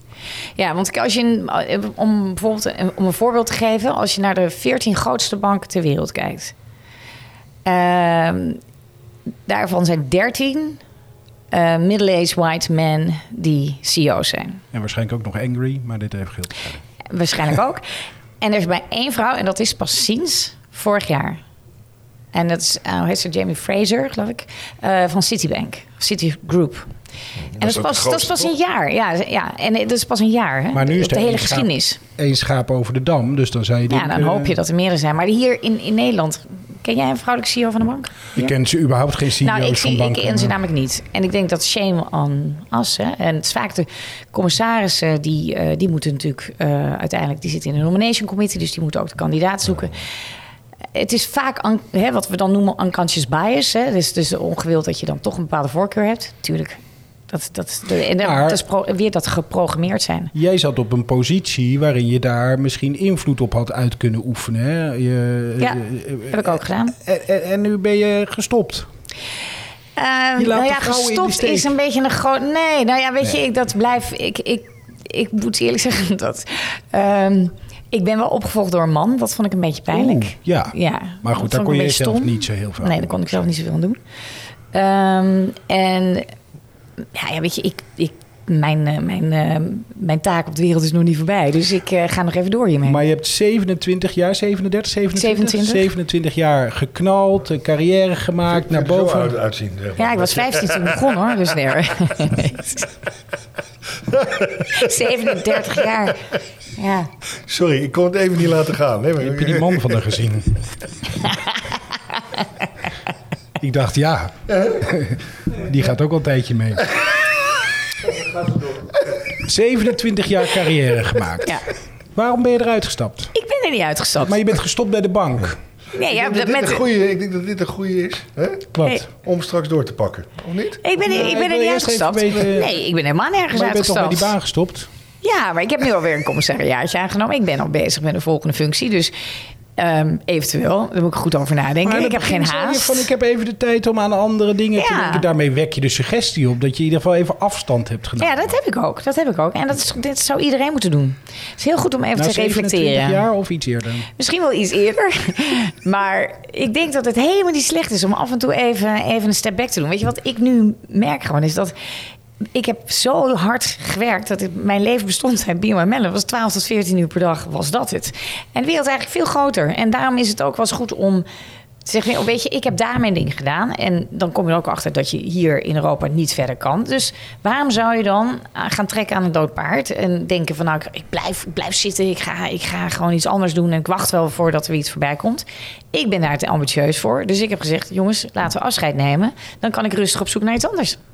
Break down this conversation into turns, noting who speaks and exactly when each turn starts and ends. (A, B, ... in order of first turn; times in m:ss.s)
0:00.6-0:06.5 A
0:07.6-0:08.6 A
0:09.5-0:10.8 A
0:11.5-0:14.6 A
0:14.7-0:16.8 B
0:17.1-0:17.8 A
0:18.4-0:21.4 A
0:22.3-0:26.9 A
0:27.6-0:28.5 C
0:27.6-0:32.0 A
0:30.7-0:34.5 B
0:33.9-0:38.5 A
0:38.4-0:40.5 B
0:39.4-0:50.0 A
0:50.9-1:00.3 A
0:58.2-0:58.6 B
1:00.3-1:08.9 B
1:05.6-1:07.0 A
1:10.0-1:24.0 A
1:10.4-1:11.7 B
1:19.9-1:23.2 B
1:24.7-1:26.3 A
1:27.1-1:33.0 A
1:32.8-1:39.3 B
1:35.2-1:35.9 A
1:38.5-1:41.3 C
1:40.0-1:42.9 A
1:44.1-1:44.9 C
1:44.7-1:46.2 A
1:46.8-1:47.1 A
1:47.5-1:50.0 C
1:49.2-1:50.5 B
1:51.2-1:51.5 A
1:53.6-1:56.9 B
1:59.4-2:01.5 B
2:02.2-2:03.3 B
2:03.3-2:04.4 A
2:04.2-2:05.6 B
2:06.0-2:06.8 A
2:06.0-2:10.8 C
2:08.8-2:09.1 B
2:10.8-2:14.3 A
2:11.0-2:12.8 B
2:13.5-2:14.9 B
2:15.2-2:19.1 A
2:19.8-2:23.1 A
2:21.8-2:28.4 B
2:24.8-2:25.2 A
2:28.2-2:33.2 A
2:32.2-2:34.1 B
2:34.2-2:41.7 A
2:42.5-2:51.3 A
2:51.8-3:11.0 A